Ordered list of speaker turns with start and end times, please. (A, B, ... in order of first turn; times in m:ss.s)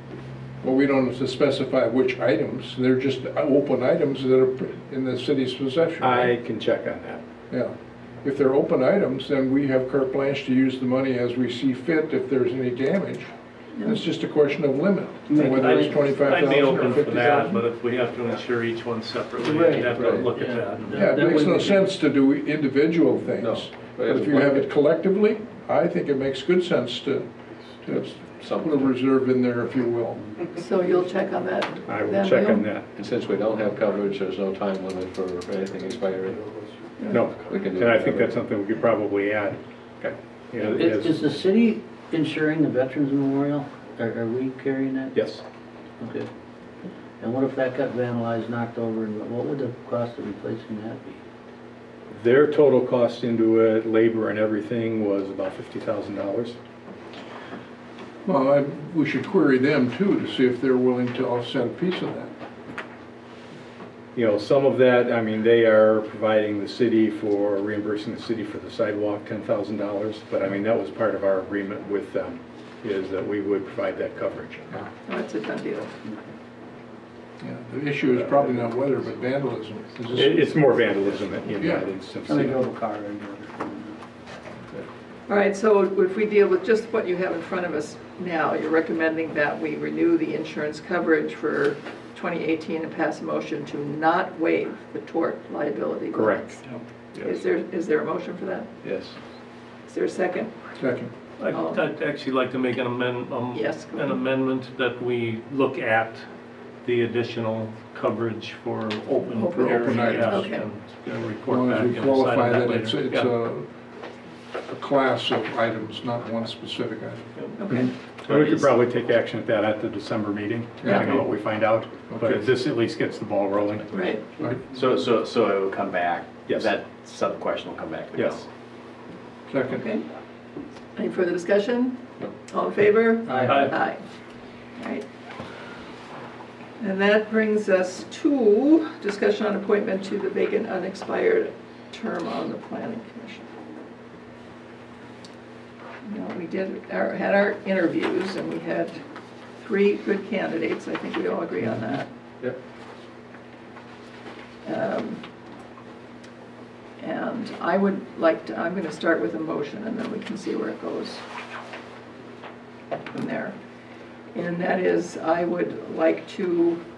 0:00.6-0:06.3 A
0:06.0-0:07.2 B
0:07.5-0:17.6 A
0:15.3-0:16.0 C
0:15.6-0:21.2 D
0:19.4-0:21.8 C
0:19.9-0:20.4 E
0:20.9-0:27.3 A
0:23.4-0:24.7 E
0:27.8-0:30.3 A
0:28.4-0:28.8 E
0:30.6-0:32.7 F
0:31.9-0:32.9 B
0:33.0-0:36.4 E
0:37.1-0:41.4 B
0:37.5-0:38.3 E
0:40.6-0:45.2 C
0:45.1-0:45.4 B
0:46.0-0:46.3 C
0:47.2-0:51.2 C
0:52.1-0:56.6 B
0:58.2-1:02.3 A
1:04.2-1:14.8 B
1:15.1-1:15.9 F
1:17.4-1:20.4 A
1:20.1-1:22.6 B
1:21.6-1:21.9 A
1:22.2-1:24.0 C
1:25.3-1:36.6 F
1:36.1-1:36.6 B
1:37.2-1:38.7 F
1:38.8-1:39.1 E
1:39.9-1:40.5 F
1:40.8-1:41.1 A
1:41.4-1:46.3 D
1:41.5-1:41.8 F
1:43.5-1:44.2 F
1:46.8-1:53.4 D
1:49.3-1:50.7 F
1:49.6-1:50.5 A
1:51.1-1:53.7 A
1:54.7-1:57.2 A
1:57.6-1:58.0 F
1:57.7-2:04.1 B
1:58.3-1:58.7 D
2:00.8-2:01.2 A
2:02.1-2:02.5 A
2:03.9-2:04.2 F
2:04.7-2:08.5 G
2:06.5-2:06.7 B
2:08.1-2:08.4 B
2:09.5-2:09.8 A
2:09.7-2:10.0 F
2:11.0-2:14.0 F
2:13.3-2:13.7 C
2:13.5-2:13.7 D
2:14.8-2:15.1 F
2:16.8-2:23.5 F
2:26.0-2:29.0 F
2:29.6-2:32.1 F
2:34.6-2:35.2 F
2:37.0-2:41.2 F
2:43.1-2:43.6 F
2:44.3-2:46.8 F